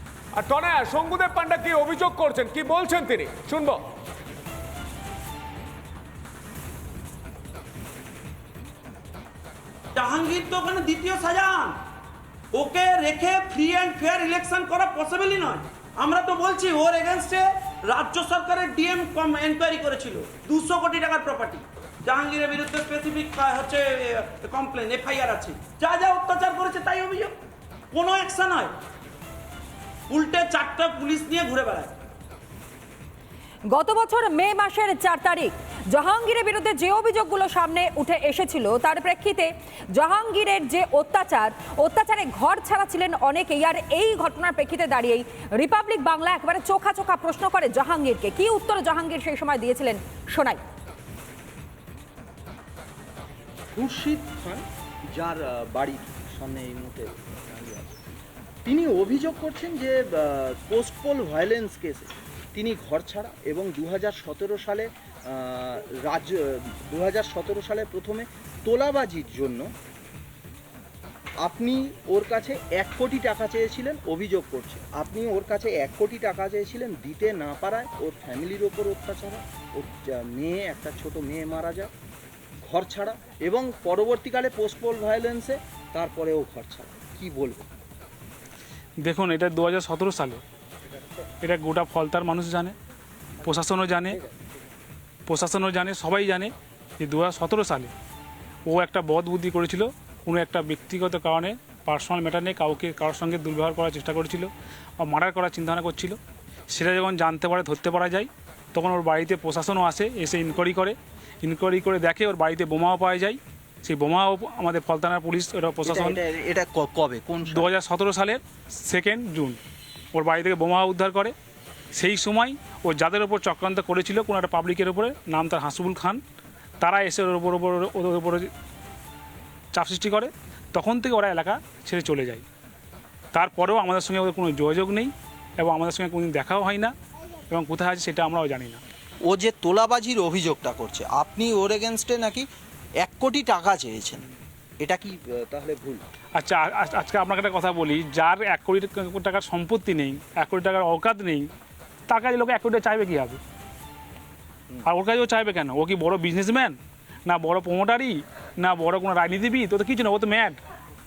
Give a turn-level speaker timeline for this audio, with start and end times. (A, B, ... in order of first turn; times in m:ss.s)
0:00.4-0:03.8 A
0:09.9-0:11.8 B
0:12.5-0:27.4 B
0:27.9-0:28.8 B
0:30.1-0:31.9 B
0:33.7-0:50.6 C
0:53.7-0:54.6 D
0:55.2-0:57.9 D
0:58.6-1:09.7 D
1:11.4-1:21.9 D
1:22.6-1:27.7 D
1:29.0-1:30.4 E
1:31.4-1:32.7 E
1:33.4-1:34.2 E
1:35.3-1:37.9 E
1:38.7-1:44.5 E
1:45.0-1:46.2 E
1:46.7-1:56.2 E
1:55.8-1:57.7 D
1:57.5-1:59.6 E
2:00.1-2:01.3 E
2:02.0-2:06.2 E
2:06.8-2:08.5 E
2:09.7-2:12.4 E
2:13.3-2:16.9 E
2:17.5-2:18.8 E
2:19.3-2:22.4 D
2:23.0-2:24.2 D
2:24.8-2:26.0 D
2:26.4-2:31.5 E
2:32.1-2:33.4 E
2:34.8-2:40.6 E